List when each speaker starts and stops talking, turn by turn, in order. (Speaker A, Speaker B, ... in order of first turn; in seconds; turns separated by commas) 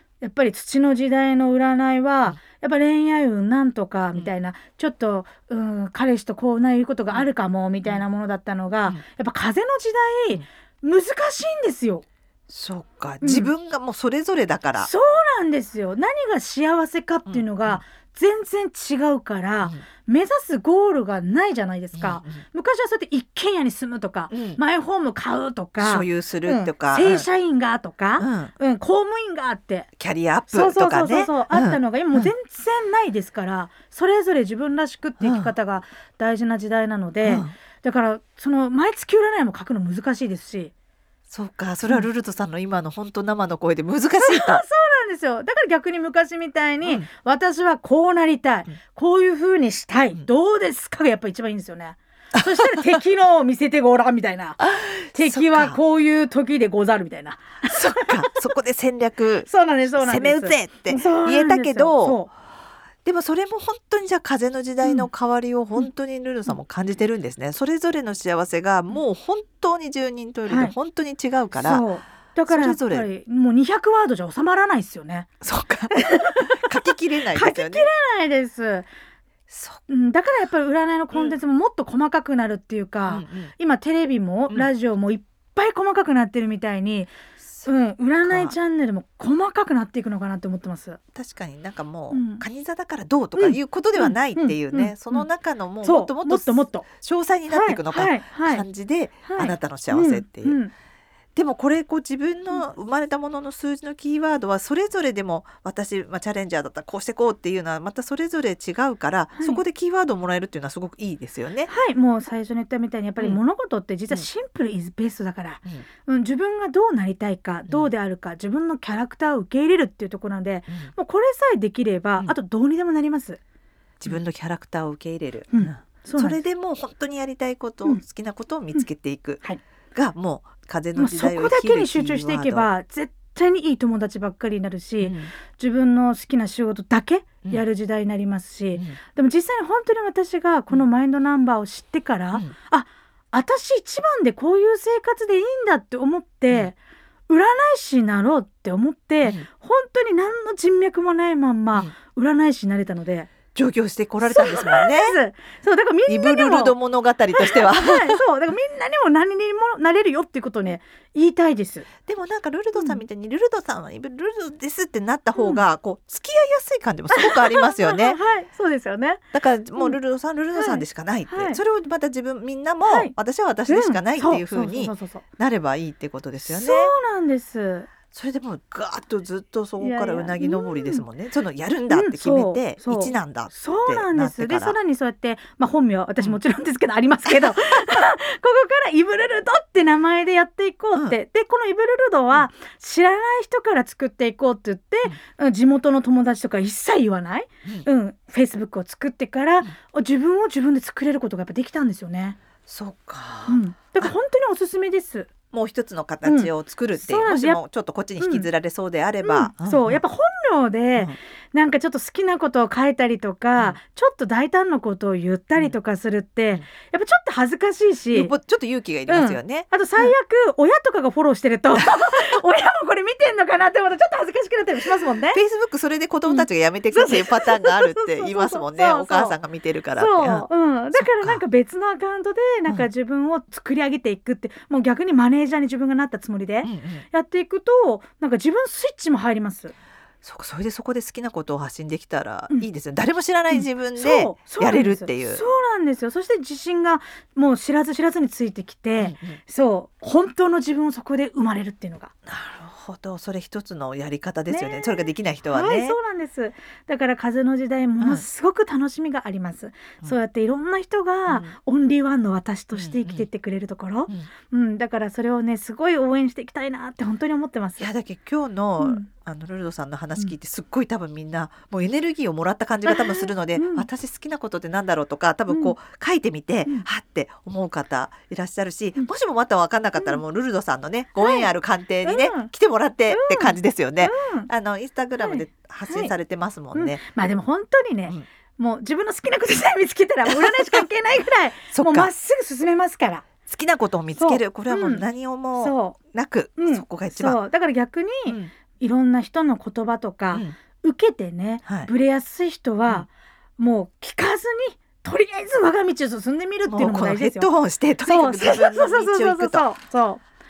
Speaker A: 0.2-12.1, Speaker B: 12.5-14.9, Speaker A: 13.2-13.5, Speaker A: 14.8-29.9, Speaker B: 17.3-17.8, Speaker B: 21.9-22.4, Speaker B: 24.3-24.6, Speaker B: 25.8-27.3, Speaker B: 28.2-28.5, Speaker B: 30.0-32.3, Speaker A: 30.5-40.7, Speaker B: 35.2-35.5, Speaker B: 37.2-37.5, Speaker B: 41.3-44.6, Speaker A: 44.2-58.4, Speaker B: 54.6-55.8, Speaker B: 57.7-62.2, Speaker A: 59.5-62.3, Speaker B: 63.0-71.9, Speaker A: 64.8-65.1, Speaker A: 70.5-70.8, Speaker A: 71.5-75.3, Speaker B: 72.5-73.1, Speaker B: 75.4-77.9, Speaker A: 76.0-76.7, Speaker A: 77.3-78.9, Speaker B: 79.5-79.8, Speaker A: 79.9-87.1, Speaker B: 83.1-83.5, Speaker B: 87.4-87.7, Speaker A: 87.7-91.0, Speaker B: 88.2-88.5, Speaker B: 91.2-100.6, Speaker A: 92.1-92.5, Speaker A: 93.4-95.3, Speaker A: 95.8-96.9, Speaker A: 97.5-98.7, Speaker A: 99.2-100.7, Speaker B: 101.3-111.7, Speaker A: 109.4-109.6, Speaker A: 111.7-123.4, Speaker B: 124.0-129.4, Speaker A: 125.5-126.4, Speaker B: 129.9-132.7, Speaker A: 131.0-146.8, Speaker B: 135.0-135.3, Speaker A: 147.3-153.3, Speaker B: 153.6-155.2, Speaker A: 154.2-156.8, Speaker B: 156.1-158.2, Speaker A: 157.3-161.9, Speaker B: 162.1-168.2, Speaker A: 165.4-165.6, Speaker A: 167.1-169.2, Speaker B: 169.3-176.9, Speaker A: 170.6-171.6, Speaker A: 172.8-173.1, Speaker A: 173.7-175.2, Speaker A: 176.4-177.9, Speaker B: 178.1-184.8, Speaker A: 179.8-181.1, Speaker A: 181.9-202.4, Speaker B: 187.3-187.8, Speaker B: 202.7-204.1, Speaker A: 203.5-205.3, Speaker B: 205.5-210.0, Speaker A: 206.2-207.6, Speaker A: 208.2-208.5, Speaker A: 209.2-218.3, Speaker B: 218.1-220.1, Speaker A: 219.1-225.4, Speaker B: 225.3-231.4, Speaker A: 226.3-229.4, Speaker A: 230.0-239.7, Speaker B: 236.6-237.1, Speaker B: 240.2-245.4, Speaker A: 243.5-252.1, Speaker B: 249.0-249.4, Speaker B: 252.3-256.0, Speaker A: 254.5-267.9, Speaker B: 258.0-258.3, Speaker B: 261.3-261.5, Speaker B: 262.7-263.3, Speaker B: 267.8-287.0, Speaker A: 268.8-269.1, Speaker A: 272.9-273.9, Speaker A: 275.5-275.8, Speaker A: 281.2-281.5, Speaker A: 282.0-282.5, Speaker A: 283.1-284.5, Speaker A: 285.2-286.1, Speaker A: 286.7-293.3, Speaker B: 290.3-290.9, Speaker B: 291.7-292.1, Speaker B: 293.5-297.4, Speaker A: 294.1-296.0, Speaker A: 296.6-307.5, Speaker B: 300.3-300.6, Speaker B: 301.7-301.9, Speaker B: 306.7-309.6, Speaker A: 308.0-310.2